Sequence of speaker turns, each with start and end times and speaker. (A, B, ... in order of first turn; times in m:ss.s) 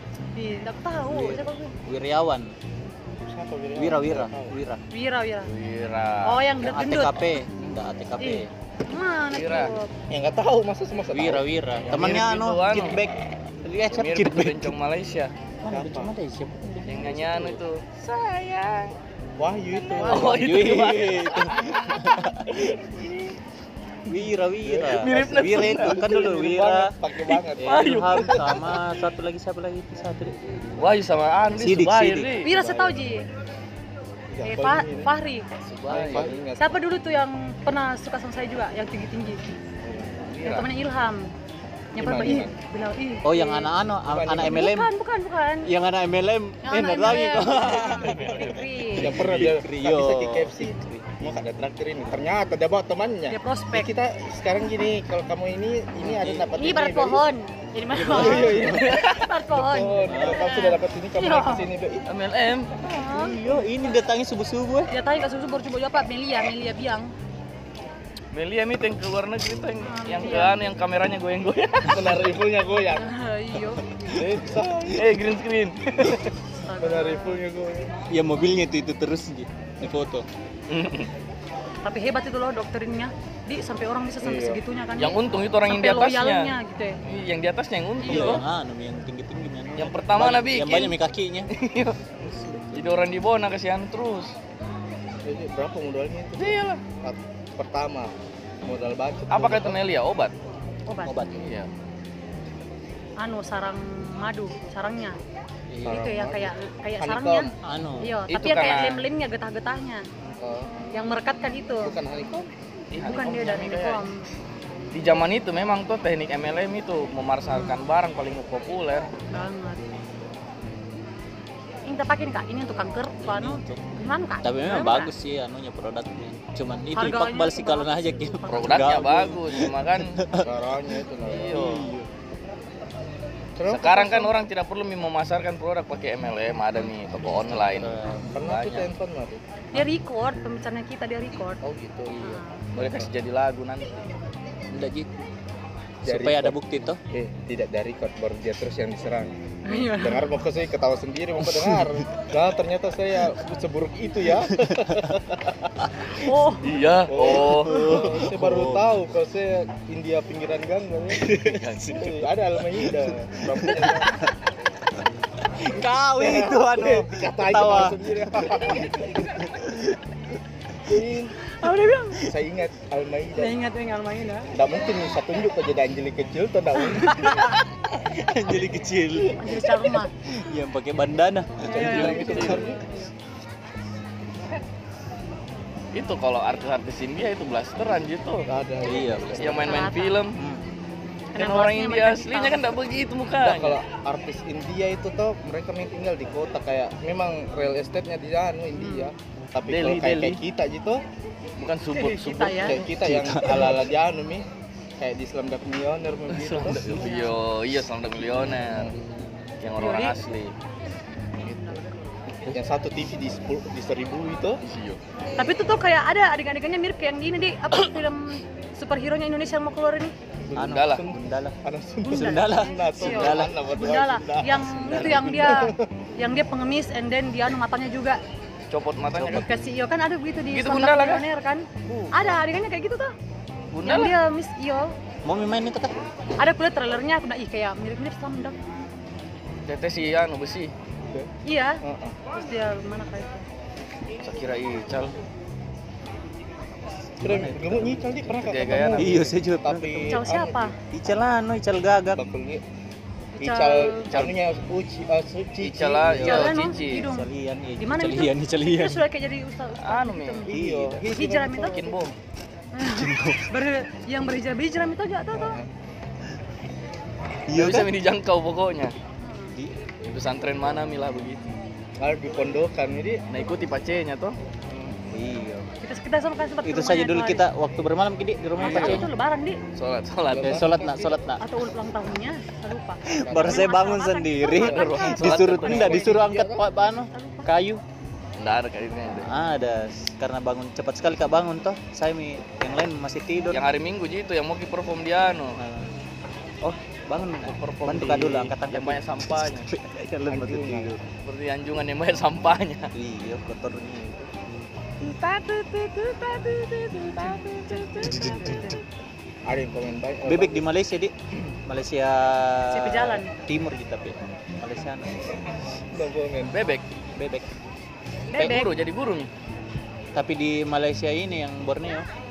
0:00.3-0:01.7 A
0:01.1-0:01.4 B
0:01.8-0:02.5 C
0:03.2-0:04.6 B
0:03.8-0:04.8 C
0:04.9-0:05.5 A
0:05.4-0:06.4 D
0:06.2-0:07.2 A
0:06.6-0:08.5 C
0:08.2-0:09.9 A
0:09.3-0:09.7 D
0:10.1-0:11.4 B
0:11.1-0:14.8 C
0:11.8-0:13.0 D
0:13.9-0:15.3 D
0:15.6-0:17.6 C
0:15.7-0:16.1 B
0:16.8-0:19.0 D
0:19.4-0:20.6 B
0:19.7-0:23.3 D
0:19.9-0:22.4 C
0:24.1-0:27.0 C
0:24.6-0:28.1 B
0:24.8-0:26.2 D
0:27.6-0:30.4 C
0:27.6-0:28.8 D
0:30.8-0:32.5 D
0:31.5-0:32.4 C
0:32.4-0:33.3 A
0:32.5-0:32.9 B
0:34.3-0:35.1 B
0:34.4-0:35.4 A
0:35.6-0:36.4 D
0:35.9-0:36.8 B
0:36.6-0:39.4 A
0:39.8-0:40.6 B
0:40.4-0:41.3 A
0:41.9-0:43.7 A
0:42.0-0:42.6 B
0:43.2-0:44.9 C
0:44.0-0:44.6 B
0:44.3-0:45.7 A
0:45.6-0:48.4 C
0:46.6-0:49.1 A
0:47.6-0:48.8 D
0:48.9-0:51.2 C
0:49.0-0:57.2 B
0:53.3-0:53.9 A
0:56.0-0:56.5 C
0:56.5-1:01.7 A
0:58.0-1:02.0 B
0:58.0-0:58.7 C
0:58.7-0:59.2 D
1:00.1-1:00.5 C
1:02.1-1:02.7 D
1:02.8-1:03.4 A
1:03.0-1:04.9 C
1:04.9-1:07.1 A
1:08.3-1:12.2 D
1:09.9-1:10.6 A
1:11.9-1:13.1 B
1:13.0-1:13.8 A
1:14.1-1:15.1 B
1:14.9-1:16.2 D
1:16.6-1:17.4 A
1:16.8-1:18.0 B
1:18.1-1:20.3 C
1:20.7-1:21.1 D
1:21.8-1:27.0 A
1:24.2-1:24.6 B
1:25.0-1:28.4 D
1:28.0-1:28.4 A
1:28.0-1:31.5 C
1:29.8-1:31.0 D
1:31.5-1:34.4 D
1:32.4-1:32.9 C
1:35.2-1:38.1 B
1:36.4-1:36.8 D
1:38.6-1:39.8 B
1:39.3-1:40.3 D
1:40.9-1:41.2 A
1:41.0-1:41.5 C
1:41.3-1:41.7 D
1:43.2-1:45.2 A
1:45.7-1:46.1 C
1:45.8-1:47.5 B
1:45.9-1:47.5 A
1:47.6-1:48.1 C
1:48.0-1:50.0 A
1:48.3-1:49.0 D
1:50.4-1:50.7 B
1:50.9-1:51.9 A
1:51.8-1:52.5 B
1:52.9-1:54.0 D
1:53.0-1:54.2 A
1:54.9-1:59.1 D
1:57.5-1:57.8 A
1:59.3-1:59.8 A
2:01.8-2:05.1 A
2:03.2-2:03.9 C
2:04.4-2:12.1 C
2:06.9-2:08.9 A
2:08.5-2:10.2 D
2:10.4-2:11.8 B
2:11.2-2:11.9 D
2:13.6-2:14.3 B
2:13.7-2:18.9 D
2:17.2-2:18.3 C
2:18.3-2:19.4 B
2:19.7-2:21.6 A
2:21.6-2:22.2 B
2:22.2-2:22.6 A
2:22.7-2:24.1 D
2:22.8-2:23.0 B
2:24.7-2:25.1 C
2:26.0-2:26.6 B
2:26.0-2:27.0 C
2:27.1-2:35.5 B
2:29.7-2:30.3 A
2:31.4-2:32.1 C
2:34.5-2:35.1 C
2:36.1-2:36.7 A
2:36.6-2:38.3 D
2:37.1-2:44.1 B
2:37.4-2:38.8 C
2:37.7-2:38.0 A
2:41.2-2:42.2 C
2:41.3-2:42.1 D
2:42.7-2:44.3 C
2:45.6-2:49.9 C
2:46.0-2:49.3 B
2:50.8-2:51.3 B
2:51.5-2:52.2 A
2:52.2-2:53.6 B
2:53.4-2:54.5 A
2:54.5-2:57.3 B
2:57.0-2:59.7 C
2:57.1-2:57.6 A
2:59.4-3:00.1 A
3:00.4-3:02.6 C
3:01.7-3:02.8 B
3:01.7-3:03.1 A
3:01.8-3:02.6 D
3:05.9-3:08.5 D
3:08.5-3:09.8 B
3:08.8-3:09.6 C
3:09.2-3:10.4 D
3:09.4-3:10.2 A
3:10.4-3:10.6 C
3:11.3-3:12.6 A
3:11.4-3:13.8 D
3:13.4-3:21.0 B
3:18.8-3:19.1 A
3:19.7-3:20.4 D
3:21.6-3:22.8 D
3:21.9-3:22.8 A
3:22.6-3:24.5 B
3:22.9-3:23.8 C
3:25.0-3:27.0 B
3:26.3-3:28.9 D
3:26.8-3:27.3 A
3:28.7-3:28.9 B
3:29.6-3:30.5 D
3:29.8-3:30.2 A
3:31.4-3:32.2 A
3:32.5-3:34.6 B
3:34.6-3:35.0 D
3:35.4-3:40.1 A
3:40.5-3:45.8 B
3:40.5-3:41.6 C
3:40.6-3:41.0 D
3:42.0-3:48.2 A
3:42.1-3:43.5 C
3:44.9-3:45.3 C
3:48.7-3:49.5 D
3:49.1-3:49.5 C
3:49.2-3:53.1 A
3:50.5-3:51.2 D
3:53.7-3:54.1 D
3:53.8-3:54.9 A
3:55.2-3:56.0 C
3:56.4-3:58.5 A
3:59.6-4:00.7 D
4:01.4-4:03.4 A
4:01.8-4:02.2 B
4:04.2-4:05.1 D
4:07.2-4:08.3 C
4:07.2-4:10.7 B
4:08.3-4:09.3 D
4:09.0-4:10.3 C
4:10.0-4:10.7 A
4:10.9-4:12.2 C
4:12.1-4:12.6 B
4:13.4-4:14.1 A
4:13.4-4:16.4 B
4:14.1-4:14.4 D
4:15.6-4:17.0 D
4:16.0-4:19.0 C
4:16.1-4:21.9 A
4:19.8-4:22.2 D
4:20.5-4:21.0 C
4:20.6-4:21.8 B
4:22.8-4:25.6 A
4:22.8-4:23.5 C
4:25.3-4:25.7 B
4:27.5-4:27.9 C
4:27.5-4:28.9 D
4:29.2-4:29.5 A
4:29.5-4:29.8 C
4:30.0-4:31.4 D
4:32.0-4:33.2 B
4:33.3-4:34.4 D
4:35.0-4:35.7 C
4:35.8-4:37.5 A
4:36.6-4:39.1 C
4:38.6-4:39.6 A
4:38.6-4:39.1 D
4:39.7-4:40.8 D
4:40.3-4:41.2 B
4:40.4-4:41.4 C
4:41.4-4:45.3 A
4:43.1-4:47.8 C
4:43.2-4:43.7 B
4:44.5-4:46.2 D
4:44.6-4:46.6 B
4:46.8-4:47.5 A
4:48.4-4:49.3 D
4:49.2-4:53.6 C
4:53.5-4:55.6 D
4:55.6-4:55.9 C
4:56.6-5:01.0 C
4:57.4-4:59.7 D
5:00.3-5:01.0 B
5:01.2-5:02.9 D
5:02.9-5:04.3 C
5:05.0-5:08.2 D
5:07.2-5:08.8 A
5:07.9-5:08.8 C
5:09.5-5:10.6 B
5:10.2-5:11.1 C
5:11.6-5:15.2 C
5:12.7-5:13.3 A
5:15.9-5:16.5 B
5:16.5-5:16.8 D
5:17.1-5:17.5 C
5:18.3-5:18.7 A
5:18.4-5:19.3 D
5:20.1-5:22.1 C